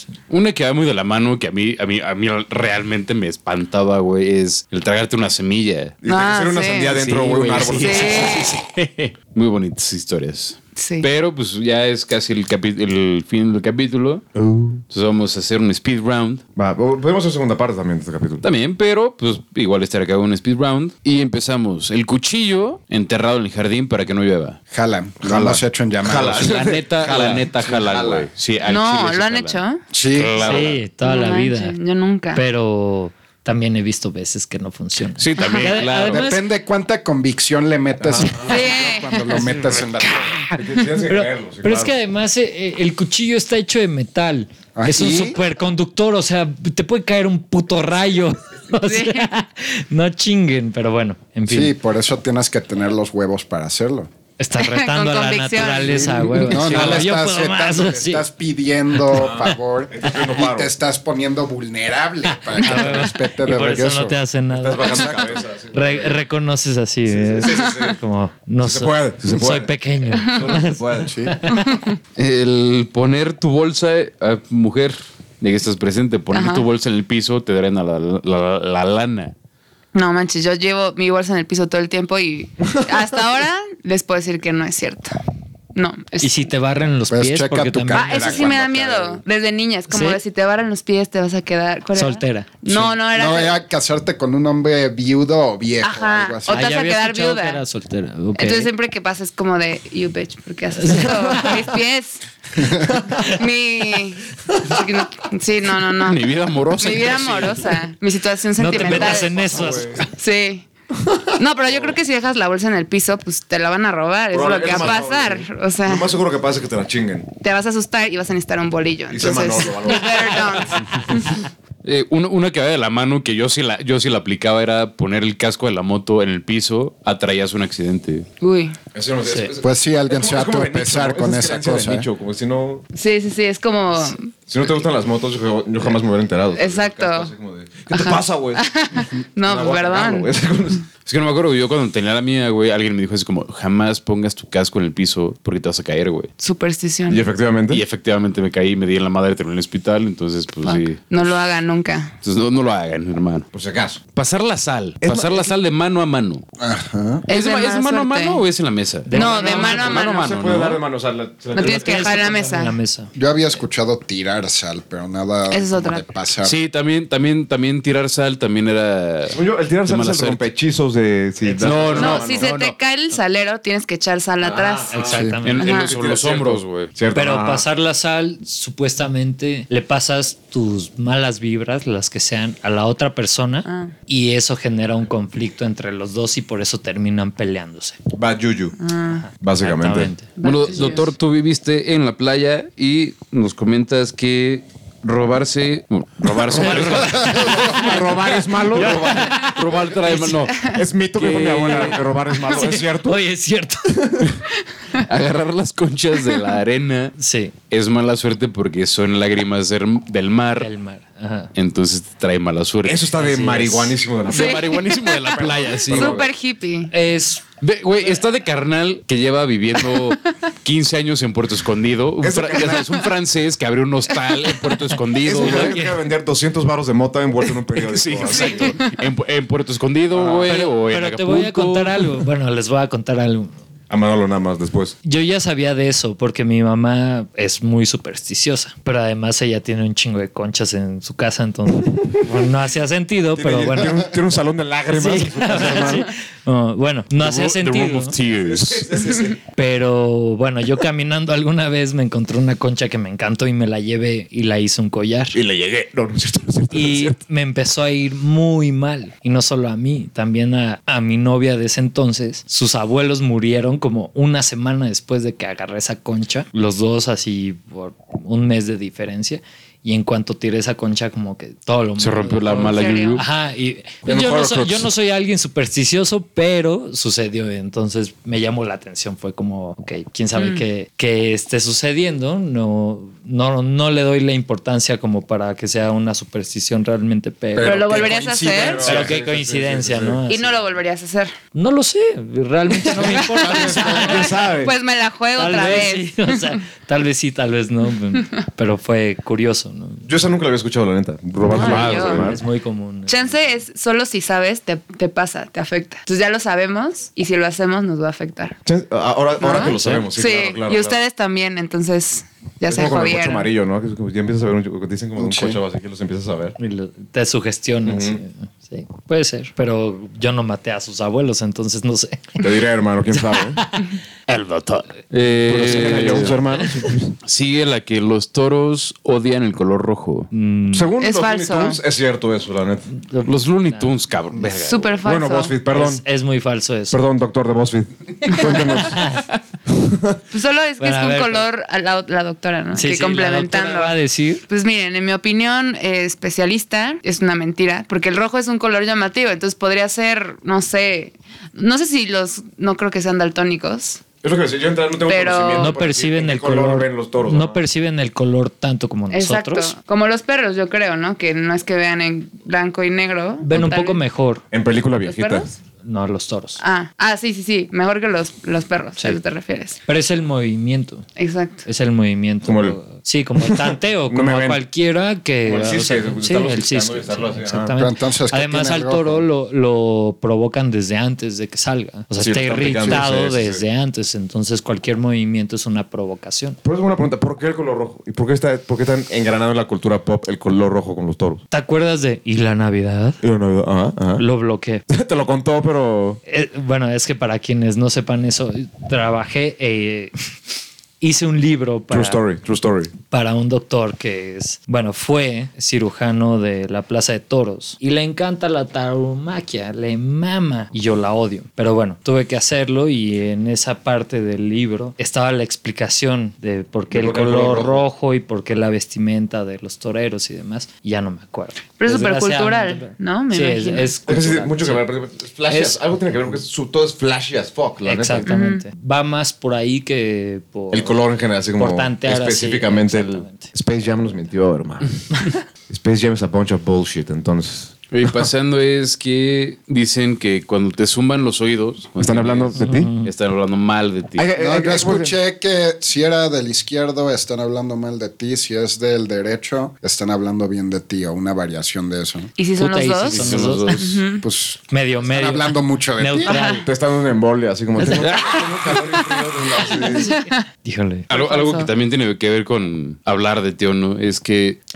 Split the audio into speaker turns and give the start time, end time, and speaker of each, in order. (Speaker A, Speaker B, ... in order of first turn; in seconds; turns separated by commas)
Speaker A: 0.3-6.0, Speaker B: 6.0-8.5, Speaker C: 6.0-7.0, Speaker A: 7.0-16.4, Speaker C: 7.7-8.5, Speaker C: 10.8-11.1, Speaker B: 14.4-14.7, Speaker B: 16.6-18.4, Speaker A: 18.4-24.6, Speaker D: 24.7-26.5, Speaker B: 25.2-28.3, Speaker A: 26.3-30.8, Speaker C: 28.6-29.8, Speaker D: 29.9-30.5, Speaker E: 30.4-31.8, Speaker C: 30.4-32.4, Speaker E: 32.3-36.4, Speaker A: 35.2-36.2, Speaker D: 36.0-40.3, Speaker B: 38.0-38.6, Speaker C: 38.4-39.4, Speaker E: 39.3-51.7, Speaker B: 40.5-41.9, Speaker D: 44.7-45.4, Speaker C: 48.8-49.3, Speaker D: 51.5-54.1, Speaker E: 54.4-58.2, Speaker C: 54.5-56.7, Speaker D: 55.8-64.2, Speaker E: 58.9-59.6, Speaker B: 59.1-60.7, Speaker E: 62.5-71.8, Speaker C: 62.6-63.0, Speaker B: 64.5-66.2, Speaker D: 64.9-65.2, Speaker B: 67.1-68.0, Speaker B: 68.6-71.1, Speaker D: 71.0-71.3, Speaker C: 71.5-72.0, Speaker A: 72.2-79.3, Speaker C: 76.3-76.7, Speaker C: 79.9-85.2, Speaker C: 85.7-86.4, Speaker E: 86.2-88.5, Speaker D: 87.1-89.2, Speaker C: 87.9-93.6, Speaker E: 89.9-90.2, Speaker E: 91.9-92.5, Speaker D: 93.0-96.8, Speaker C: 95.8-97.6, Speaker E: 96.5-98.7, Speaker C: 98.3-106.2, Speaker E: 100.8-101.6, Speaker E: 103.1-103.3, Speaker A: 106.0-107.8, Speaker C: 106.8-110.7, Speaker E: 108.6-110.0, Speaker B: 108.7-110.1, Speaker B: 110.9-112.0, Speaker C: 111.3-116.1, Speaker B: 114.3-117.3, Speaker C: 117.4-121.4, Speaker B: 119.1-120.8, Speaker A: 121.8-128.2, Speaker C: 128.4-128.8, Speaker B: 128.9-132.8, Speaker E: 129.2-129.5, Speaker D: 129.6-132.1, Speaker C: 132.9-134.3, Speaker B: 134.5-138.7, Speaker C: 136.5-137.3, Speaker C: 137.9-140.3, Speaker B: 139.4-140.8, Speaker A: 141.1-146.3, Speaker C: 146.4-147.2, Speaker B: 147.1-147.8, Speaker A: 147.7-151.2, Speaker C: 150.6-152.1, Speaker A: 152.2-153.5, Speaker B: 153.5-154.0, Speaker A: 154.1-156.4, Speaker B: 155.0-155.4, Speaker D: 156.6-157.2, Speaker C: 157.3-158.4, Speaker A: 157.3-160.8, Speaker E: 159.1-160.1, Speaker C: 159.1-160.3, Speaker B: 159.1-162.4, Speaker C: 161.5-162.8, Speaker E: 161.6-163.1, Speaker D: 163.1-166.6, Speaker C: 165.5-166.1, Speaker A: 166.4-170.5, Speaker B: 169.3-172.5, Speaker E: 171.4-172.7, Speaker A: 171.6-172.4, Speaker C: 171.9-175.9, Speaker B: 174.4-177.6, Speaker E: 174.9-175.7, Speaker D: 175.1-175.4, Speaker A: 175.4-176.9, Speaker E: 177.1-188.0, Speaker C: 183.7-183.9, Speaker B: 188.1-188.8, Speaker C: 188.8-189.2, Speaker E: 189.1-190.3, Speaker B: 189.3-190.1, Speaker C: 190.4-191.1, Speaker A: 190.4-202.1, Speaker B: 196.5-199.4, Speaker E: 196.5-200.3, Speaker C: 200.2-200.7, Speaker B: 200.6-203.2, Speaker E: 203.0-204.0, Speaker B: 203.9-204.4, Speaker A: 205.0-207.1, Speaker E: 207.2-207.5, Speaker A: 207.7-210.7, Speaker E: 210.6-211.5, Speaker A: 211.5-216.2, Speaker B: 212.8-216.3, Speaker E: 213.2-213.7, Speaker C: 214.3-214.9, Speaker C: 215.8-216.9, Speaker E: 216.9-217.4, Speaker A: 217.6-225.8, Speaker B: 222.2-223.0, Speaker B: 225.2-228.8, Speaker E: 225.3-226.0, Speaker A: 227.8-232.2, Speaker C: 228.4-228.8, Speaker B: 230.1-230.6, Speaker E: 230.5-233.6, Speaker B: 233.9-234.9, Speaker E: 235.0-244.1, Speaker B: 243.3-246.1, Speaker E: 244.9-248.1, Speaker A: 247.2-249.0, Speaker B: 248.3-249.4, Speaker E: 249.6-255.4, Speaker B: 255.3-257.2, Speaker E: 256.7-288.1, Speaker A: 272.0-273.2, Speaker C: 272.5-273.2, Speaker B: 274.0-274.9, Speaker C: 280.3-280.6, Speaker D: 287.5-288.8, Speaker C: 287.6-289.0, Speaker B: 287.9-290.2, Speaker E: 288.8-290.6, Speaker C: 290.3-291.3, Speaker E: 291.5-294.5, Speaker B: 292.9-294.7, Speaker C: 292.9-296.1, Speaker D: 293.5-294.1, Speaker E: 295.4-300.1, Speaker B: 300.0-302.4, Speaker E: 301.4-303.4, Speaker C: 301.4-302.3, Speaker A: 301.6-302.2, Speaker C: 303.1-308.6, Speaker B: 308.6-311.0, Speaker C: 309.4-313.5, Speaker E: 309.5-310.0, Speaker B: 312.7-316.6, Speaker D: 315.2-315.6, Speaker E: 316.6-322.4, Speaker B: 317.8-318.2, Speaker B: 322.4-323.6, Speaker E: 323.3-323.6, Speaker A: 324.3-326.4, Speaker B: 325.5-327.1, Speaker A: 327.2-330.3, Speaker E: 330.3-330.9, Speaker B: 330.7-332.9, Speaker C: 331.0-331.8, Speaker E: 333.0-334.5, Speaker A: 333.2-335.0, Speaker C: 334.6-335.5, Speaker B: 335.0-336.0, Speaker E: 335.7-337.0, Speaker B: 336.9-339.0, Speaker E: 338.3-339.2, Speaker B: 339.7-340.2, Speaker C: 340.3-343.9, Speaker E: 340.8-341.5, Speaker E: 342.7-344.4, Speaker C: 344.5-354.0, Speaker B: 354.2-357.6, Speaker C: 355.1-355.7, Speaker E: 355.6-359.7, Speaker C: 359.1-364.0, Speaker E: 363.4-364.4, Speaker B: 364.5-365.5, Speaker C: 365.0-365.5, Speaker E: 365.8-366.6, Speaker C: 366.6-369.8, Speaker E: 369.9-371.1, Speaker C: 371.2-371.6, Speaker E: 371.6-386.6, Speaker B: 372.4-372.8, Speaker B: 373.4-374.6, Speaker B: 375.4-377.7, Speaker D: 377.8-379.2, Speaker B: 382.2-383.6, Speaker B: 386.6-391.4, Speaker E: 391.5-393.2, Speaker B: 393.2-394.2, Speaker E: 394.2-394.8, Speaker B: 394.9-396.2, Speaker E: 396.2-400.1, Speaker E: 401.0-402.2, Speaker B: 401.9-402.9, Speaker E: 403.1-424.8, Speaker B: 416.9-417.8, Speaker C: 421.8-423.9, Speaker B: 424.1-428.4, Speaker E: 425.5-425.8, Speaker E: 427.8-431.0, Speaker C: 428.2-428.6, Speaker B: 430.7-437.8, Speaker E: 431.5-433.5, Speaker A: 437.9-444.2, Speaker B: 442.0-442.9, Speaker E: 442.6-443.1, Speaker B: 444.2-445.1, Speaker D: 444.4-452.3, Speaker C: 452.4-454.2, Speaker E: 452.5-453.9, Speaker A: 453.1-454.0, Speaker D: 454.2-456.4, Speaker E: 454.7-456.7, Speaker C: 456.2-456.6, Speaker B: 456.6-460.2, Speaker E: 457.8-458.4, Speaker A: 457.9-458.4, Speaker C: 459.8-460.4, Speaker E: 460.6-461.1, Speaker A: 461.1-464.6, Speaker C: 461.1-461.7